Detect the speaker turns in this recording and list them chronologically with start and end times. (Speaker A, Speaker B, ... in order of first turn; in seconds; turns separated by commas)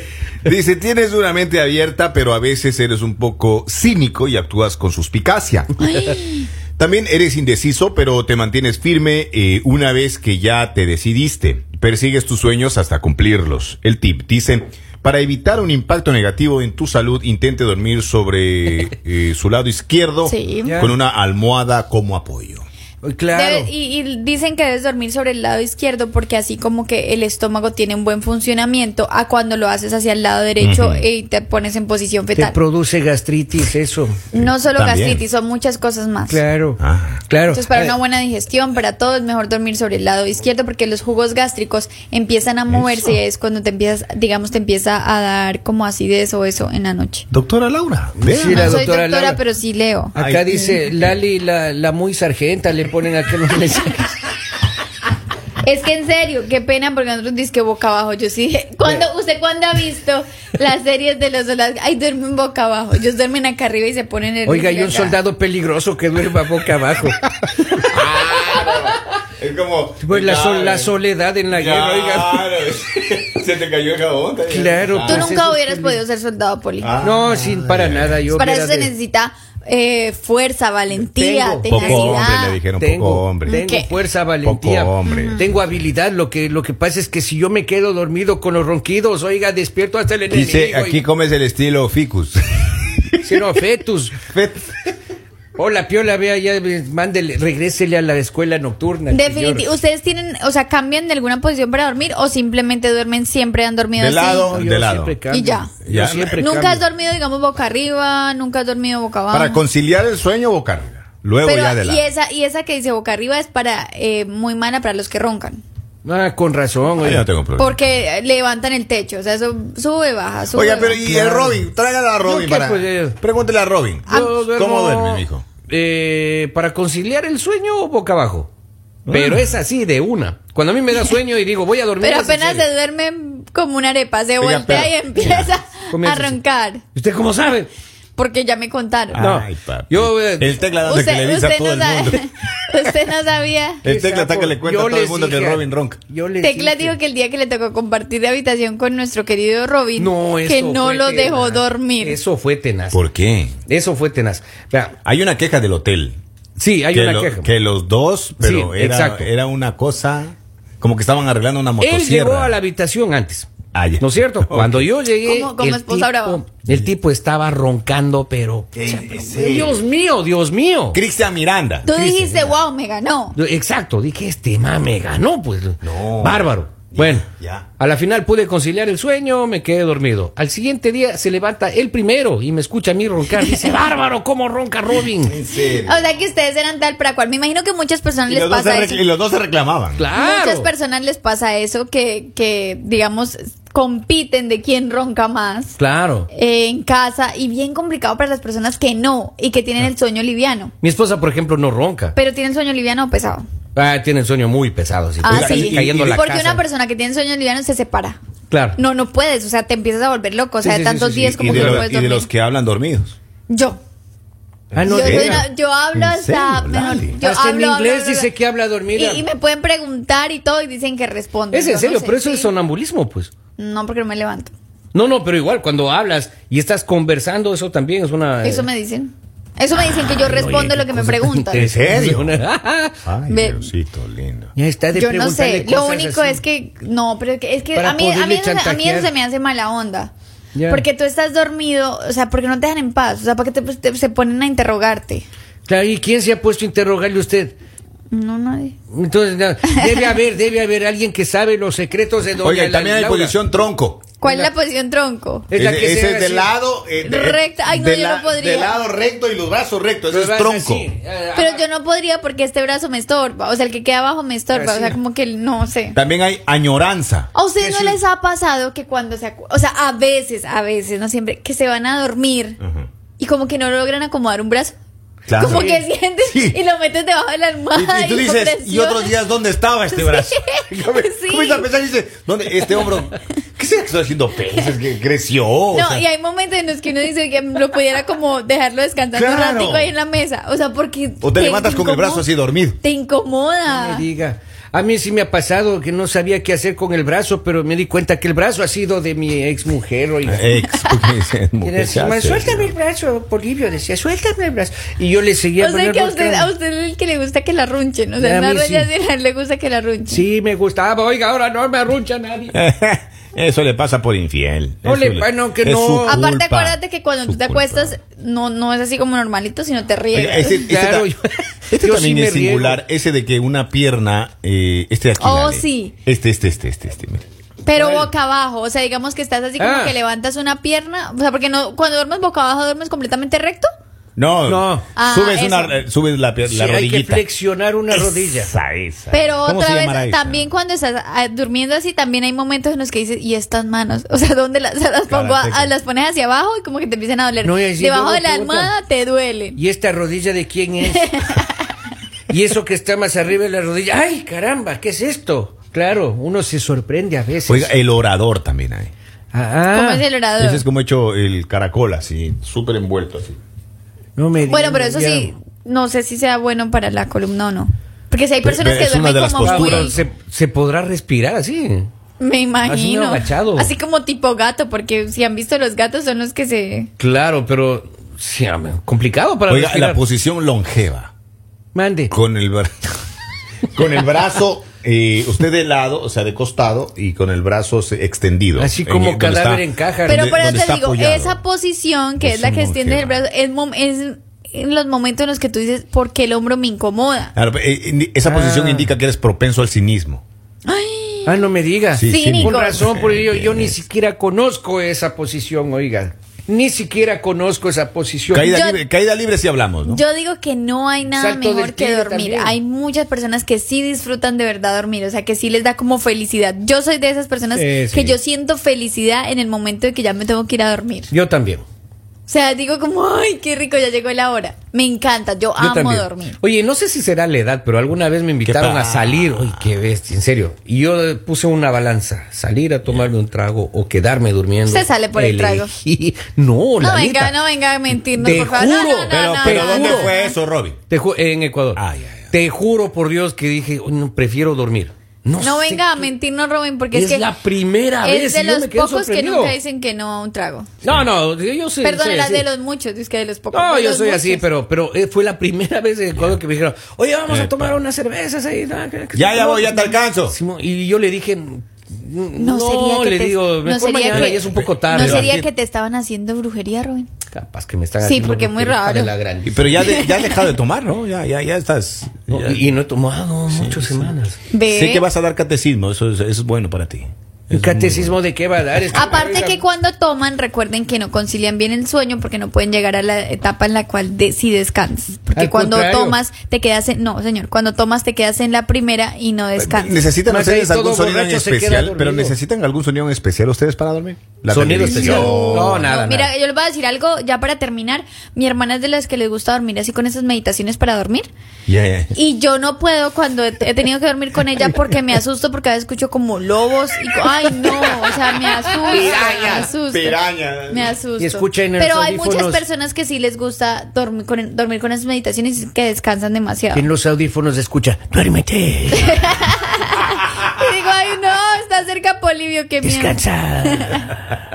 Speaker A: 0.4-5.8, Speaker B: 5.8-6.5, Speaker A: 6.8-22.6, Speaker B: 20.2-20.8, Speaker C: 20.6-20.9, Speaker C: 23.0-23.7, Speaker B: 23.3-32.6, Speaker A: 30.6-31.1, Speaker C: 32.4-34.2, Speaker A: 34.3-35.2, Speaker B: 34.3-36.4, Speaker C: 36.3-38.0, Speaker A: 36.8-37.2, Speaker B: 37.5-47.2, Speaker A: 42.7-43.1, Speaker A: 47.3-48.8, Speaker C: 48.1-49.4, Speaker B: 48.4-50.1, Speaker C: 50.1-54.2, Speaker A: 50.1-50.9, Speaker B: 55.6-65.2, Speaker C: 64.5-68.3, Speaker A: 67.9-70.9, Speaker C: 70.0-72.5, Speaker A: 71.5-75.3, Speaker C: 74.5-76.0, Speaker B: 75.0-76.9, Speaker A: 76.8-78.2, Speaker C: 77.0-78.9, Speaker B: 78.3-82.6, Speaker C: 80.9-91.0, Speaker A: 81.7-83.6, Speaker B: 83.5-83.9, Speaker A: 84.4-85.4, Speaker B: 85.0-85.5, Speaker A: 90.3-93.4, Speaker C: 93.2-94.2, Speaker A: 94.2-94.7, Speaker C: 95.5-99.7, Speaker B: 99.1-104.6, Speaker A: 104.0-105.2, Speaker C: 104.5-106.8, Speaker B: 105.3-105.7, Speaker A: 105.8-106.4, Speaker B: 106.3-109.6, Speaker A: 109.3-112.0, Speaker B: 111.4-115.6, Speaker C: 116.0-117.2, Speaker A: 117.0-117.8, Speaker B: 117.6-121.0, Speaker A: 120.5-125.5, Speaker C: 121.0-121.6, Speaker C: 122.2-123.2, Speaker B: 124.1-124.4, Speaker C: 124.1-128.5, Speaker A: 129.1-129.6, Speaker C: 129.1-132.7, Speaker B: 132.0-136.8, Speaker A: 134.4-135.5, Speaker C: 135.9-136.4, Speaker C: 136.9-137.7, Speaker B: 138.2-139.2, Speaker A: 139.1-142.3, Speaker C: 139.1-140.6, Speaker B: 140.8-143.8, Speaker A: 143.8-146.0, Speaker C: 143.8-146.9, Speaker B: 146.4-152.2, Speaker C: 150.0-153.0, Speaker A: 152.9-153.6, Speaker C: 153.7-154.9, Speaker A: 155.0-156.2, Speaker C: 156.6-157.5, Speaker A: 156.9-162.5, Speaker C: 158.4-159.3, Speaker C: 161.8-163.5, Speaker A: 163.7-164.9, Speaker C: 164.0-171.0, Speaker B: 165.2-166.4, Speaker A: 168.8-169.8, Speaker A: 170.9-171.9, Speaker B: 171.8-173.4, Speaker C: 171.9-172.6, Speaker C: 173.3-177.3, Speaker A: 175.8-177.7, Speaker C: 177.8-185.4, Speaker A: 185.2-186.1, Speaker B: 185.6-189.0, Speaker A: 188.3-190.0, Speaker C: 189.9-190.7, Speaker B: 190.1-195.8, Speaker C: 195.8-196.3, Speaker B: 196.3-200.7, Speaker C: 200.8-202.2, Speaker B: 202.1-203.4, Speaker C: 203.8-206.6, Speaker B: 205.2-208.2, Speaker A: 205.2-206.0, Speaker C: 208.5-208.8, Speaker B: 208.8-212.3, Speaker C: 210.6-211.9, Speaker A: 211.4-213.2, Speaker B: 213.5-213.8, Speaker A: 214.7-217.2, Speaker C: 214.7-215.5, Speaker B: 214.8-218.3, Speaker C: 217.2-219.2, Speaker B: 218.9-222.5, Speaker C: 221.5-223.3, Speaker B: 223.6-224.5, Speaker C: 224.9-228.7, Speaker B: 228.4-231.7, Speaker C: 230.0-232.9, Speaker A: 231.5-232.4, Speaker A: 233.0-234.5, Speaker B: 233.3-233.7, Speaker C: 234.6-236.4, Speaker B: 234.9-240.1, Speaker C: 237.7-239.1, Speaker C: 240.5-240.8, Speaker B: 240.7-245.2, Speaker C: 245.7-247.5, Speaker B: 248.1-248.8, Speaker C: 248.9-253.3, Speaker B: 249.6-250.1, Speaker A: 252.4-254.0, Speaker B: 254.2-255.5, Speaker C: 254.2-254.5, Speaker C: 255.5-256.5, Speaker A: 255.5-260.9, Speaker B: 257.0-258.7, Speaker C: 260.1-261.6, Speaker B: 261.3-266.0, Speaker C: 264.5-265.0, Speaker A: 265.9-267.3, Speaker B: 267.3-272.6, Speaker C: 267.6-268.0, Speaker A: 272.6-272.9, Speaker B: 273.2-274.8, Speaker A: 275.3-275.7, Speaker C: 275.4-275.8, Speaker B: 275.4-279.1, Speaker A: 276.2-276.6, Speaker A: 277.7-286.0, Speaker B: 279.9-281.7, Speaker B: 285.7-294.0, Speaker A: 289.1-289.9, Speaker A: 291.2-292.8, Speaker C: 293.6-300.5, Speaker A: 300.2-302.7, Speaker B: 300.7-301.1, Speaker C: 301.6-306.5, Speaker B: 305.6-310.2, Speaker C: 308.2-308.9, Speaker C: 310.1-312.5, Speaker A: 312.5-317.9, Speaker C: 314.8-316.3, Speaker B: 316.1-320.6, Speaker A: 320.1-321.1, Speaker C: 320.5-322.8, Speaker A: 321.7-327.2, Speaker B: 325.2-325.9, Speaker B: 327.6-333.7, Speaker C: 327.7-328.1, Speaker C: 329.6-330.0, Speaker A: 334.2-337.2, Speaker C: 334.4-334.9, Speaker B: 334.9-335.8, Speaker C: 336.5-338.5, Speaker A: 337.9-340.5, Speaker B: 339.1-349.6, Speaker A: 345.1-345.7, Speaker C: 347.4-348.7, Speaker C: 349.6-351.4, Speaker B: 350.8-351.7, Speaker C: 352.3-357.7, Speaker A: 357.4-358.9, Speaker C: 359.3-360.1, Speaker B: 359.7-360.6, Speaker A: 360.4-363.4, Speaker C: 364.2-365.3, Speaker B: 364.5-369.9, Speaker A: 368.4-370.0, Speaker C: 369.4-371.9, Speaker B: 372.2-376.9, Speaker C: 372.6-373.7, Speaker C: 377.0-380.0, Speaker A: 379.5-381.1, Speaker C: 381.7-382.1, Speaker A: 382.1-383.0, Speaker A: 383.7-391.4, Speaker C: 388.6-390.5, Speaker B: 390.1-397.3, Speaker A: 392.2-393.2, Speaker A: 397.3-400.2, Speaker C: 398.2-398.9, Speaker B: 400.6-401.5, Speaker C: 401.2-408.5, Speaker A: 401.9-403.8, Speaker B: 402.0-402.9, Speaker A: 408.3-410.0, Speaker B: 408.4-408.8, Speaker B: 409.9-421.1, Speaker C: 411.1-412.6, Speaker C: 417.5-418.2, Speaker C: 421.1-421.6, Speaker B: 422.3-426.4, Speaker C: 425.6-437.4, Speaker A: 428.4-429.7, Speaker B: 434.6-435.7, Speaker B: 436.8-440.4, Speaker C: 437.9-440.1, Speaker A: 439.1-440.8, Speaker C: 440.9-446.1, Speaker A: 441.7-442.2, Speaker B: 445.4-447.3, Speaker C: 446.9-449.6, Speaker B: 448.0-450.7, Speaker C: 450.8-452.5, Speaker B: 451.8-454.4, Speaker C: 453.5-465.3, Speaker A: 457.3-457.8, Speaker A: 459.1-460.4, Speaker B: 462.4-467.1, Speaker A: 464.5-465.5, Speaker C: 467.3-469.9, Speaker B: 468.0-469.1, Speaker A: 469.4-472.6, Speaker B: 469.8-470.5, Speaker C: 472.3-474.4, Speaker A: 473.5-474.1, Speaker B: 474.5-475.1, Speaker A: 474.6-478.2, Speaker C: 477.5-479.6, Speaker B: 478.9-490.1, Speaker C: 485.3-486.2, Speaker A: 489.6-495.9, Speaker C: 490.2-492.4, Speaker C: 494.5-496.3, Speaker B: 494.8-501.3, Speaker A: 501.7-502.1, Speaker B: 502.1-510.2, Speaker A: 508.9-510.9, Speaker B: 510.7-516.9, Speaker C: 511.2-512.6, Speaker C: 516.7-519.4, Speaker B: 518.9-524.1, Speaker C: 522.8-524.2